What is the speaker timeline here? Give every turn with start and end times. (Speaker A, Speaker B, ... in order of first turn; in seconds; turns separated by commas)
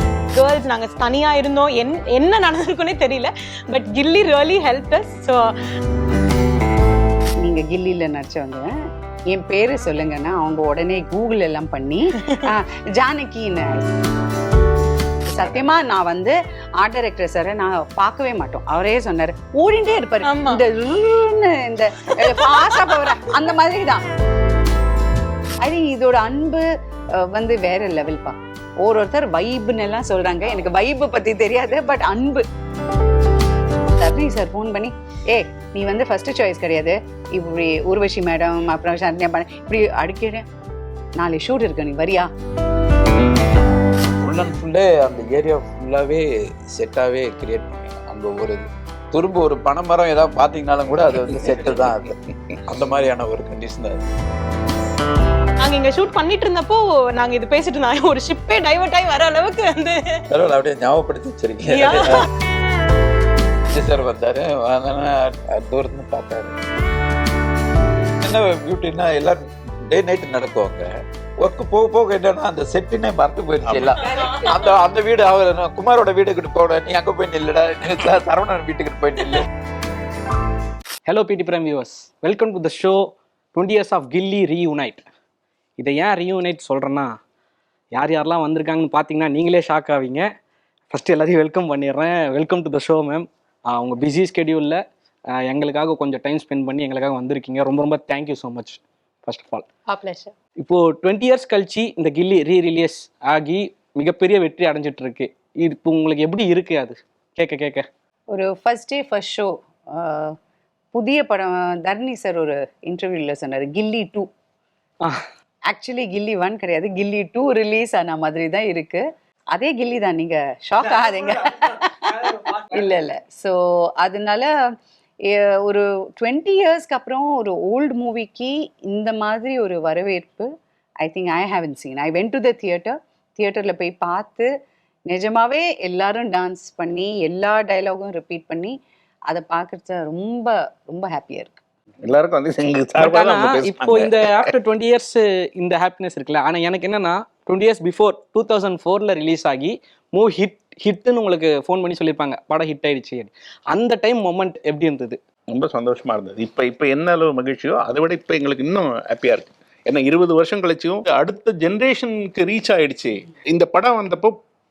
Speaker A: 0.3-5.5, Speaker B: 7.4-8.7, Speaker B: 9.3-13.8, Speaker B: 15.3-24.0, Speaker A: 20.2-20.6, Speaker B: 25.6-32.5, Speaker B: 34.0-40.5, Speaker B: 41.1-42.3, Speaker C: 44.2-54.0, Speaker A: 55.6-60.2, Speaker C: 60.3-62.2, Speaker A: 61.7-62.3, Speaker C: 63.7-66.6, Speaker C: 68.2-79.5, Speaker D: 73.6-74.0, Speaker E: 81.1-85.1, Speaker E: 85.8-87.1, Speaker E: 87.9-90.3, Speaker E: 90.9-94.8, Speaker E: 95.4-99.7, Speaker A: 99.9-100.3, Speaker E: 100.6-107.9, Speaker B: 108.3-110.4, Speaker B: 110.9-114.3, Speaker B: 115.7-130.5, Speaker B: 131.0-134.5, Speaker B: 135.1-138.8, Speaker B: 139.3-141.6, Speaker D: 142.0-144.5, Speaker E: 143.0-155.2, Speaker D: 155.5-164.3